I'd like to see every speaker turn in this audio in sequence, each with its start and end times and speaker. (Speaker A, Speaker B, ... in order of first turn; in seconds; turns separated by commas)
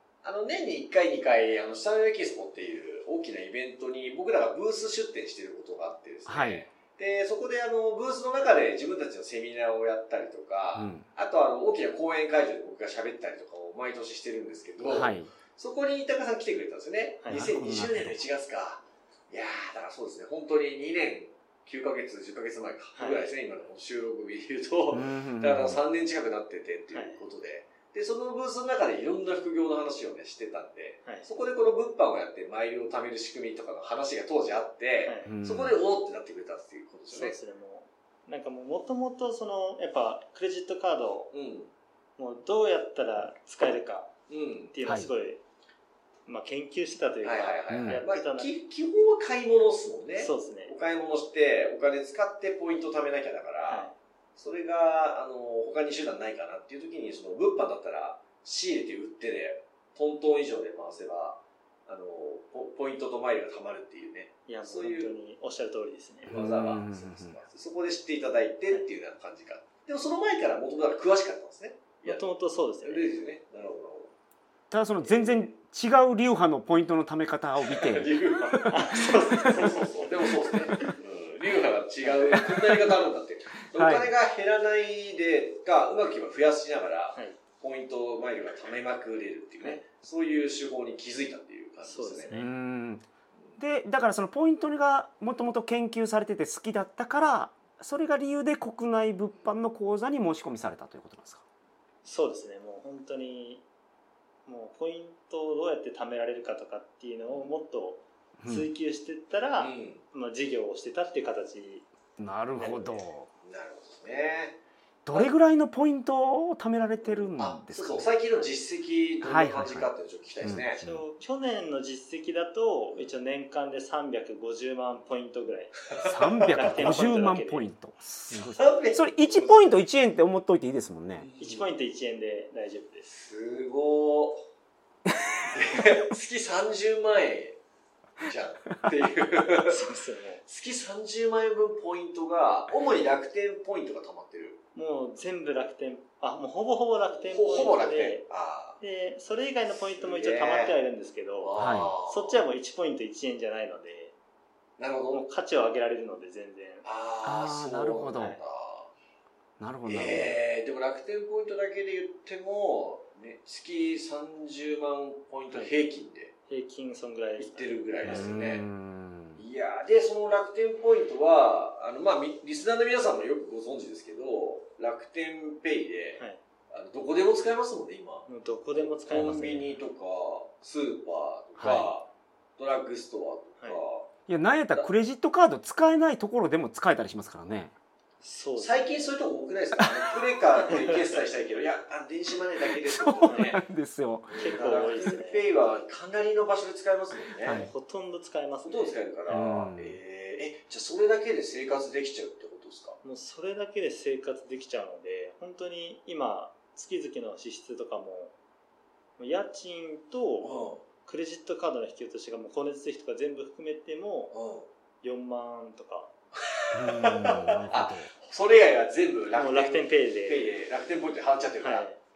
Speaker A: 0.2-37.4, Speaker B: 6.3-6.6, Speaker B: 10.7-11.1, Speaker B: 14.9-15.3, Speaker C: 17.2-17.5, Speaker B: 17.3-18.2, Speaker C: 22.9-23.2, Speaker B: 24.9-25.8, Speaker C: 26.9-27.2, Speaker C: 35.0-35.3, Speaker B: 35.3-35.8, Speaker C: 37.1-41.3, Speaker A: 41.3-41.7, Speaker C: 42.2-44.1, Speaker A: 44.3-44.7, Speaker C: 44.7-45.4, Speaker C: 46.2-48.5, Speaker A: 47.2-65.1, Speaker B: 47.7-48.0, Speaker C: 50.1-50.7, Speaker C: 53.7-53.9, Speaker C: 64.5-66.3, Speaker A: 66.2-72.3, Speaker B: 66.2-67.3, Speaker C: 72.0-73.1, Speaker A: 72.8-74.1, Speaker B: 74.7-78.1, Speaker A: 75.0-75.5, Speaker A: 77.6-92.3, Speaker C: 78.7-79.9, Speaker B: 82.3-82.8, Speaker B: 83.7-84.1, Speaker C: 91.8-92.5, Speaker B: 92.3-93.0, Speaker B: 93.6-101.4, Speaker C: 102.0-103.6, Speaker C: 104.5-111.9, Speaker B: 108.4-108.7, Speaker A: 109.6-110.0, Speaker B: 112.2-113.3, Speaker C: 112.6-113.0, Speaker A: 113.4-114.6, Speaker B: 115.0-118.1, Speaker A: 117.2-120.8, Speaker B: 119.2-119.9, Speaker B: 120.4-121.0, Speaker C: 120.8-127.7, Speaker A: 125.9-126.9, Speaker B: 126.0-131.3, Speaker A: 128.3-129.6, Speaker A: 131.2-131.7, Speaker C: 131.4-133.1, Speaker A: 133.1-134.4, Speaker A: 135.4-137.6, Speaker A: 138.2-139.8, Speaker C: 139.7-140.4, Speaker A: 140.4-144.6, Speaker C: 144.7-148.2, Speaker A: 147.2-148.8, Speaker C: 148.8-151.5, Speaker A: 149.9-150.7, Speaker A: 151.4-152.4, Speaker B: 151.6-151.9, Speaker C: 152.1-154.1, Speaker A: 154.8-155.2, Speaker C: 155.1-156.8, Speaker A: 156.8-158.9, Speaker B: 157.2-158.4, Speaker B: 159.6-160.3, Speaker A: 159.8-166.3, Speaker C: 165.5-165.8, Speaker C: 166.5-168.3, Speaker A: 167.4-168.7, Speaker B: 168.0-169.4, Speaker A: 169.3-184.1, Speaker C: 178.3-179.7, Speaker B: 179.1-179.4, Speaker B: 181.6-181.9, Speaker B: 184.3-187.7, Speaker C: 188.2-189.1, Speaker A: 188.6-193.6, Speaker C: 190.7-190.9, Speaker B: 192.8-194.5, Speaker C: 193.2-193.5, Speaker A: 194.3-197.7, Speaker C: 194.4-195.4, Speaker B: 197.4-197.7, Speaker C: 197.5-199.4, Speaker A: 198.6-203.0, Speaker B: 199.3-199.9, Speaker C: 203.0-208.3, Speaker C: 209.2-214.3, Speaker A: 210.4-210.8, Speaker A: 214.3-214.7, Speaker C: 215.0-216.1, Speaker A: 216.4-221.9, Speaker B: 216.7-218.1, Speaker C: 219.3-220.5, Speaker C: 221.6-222.0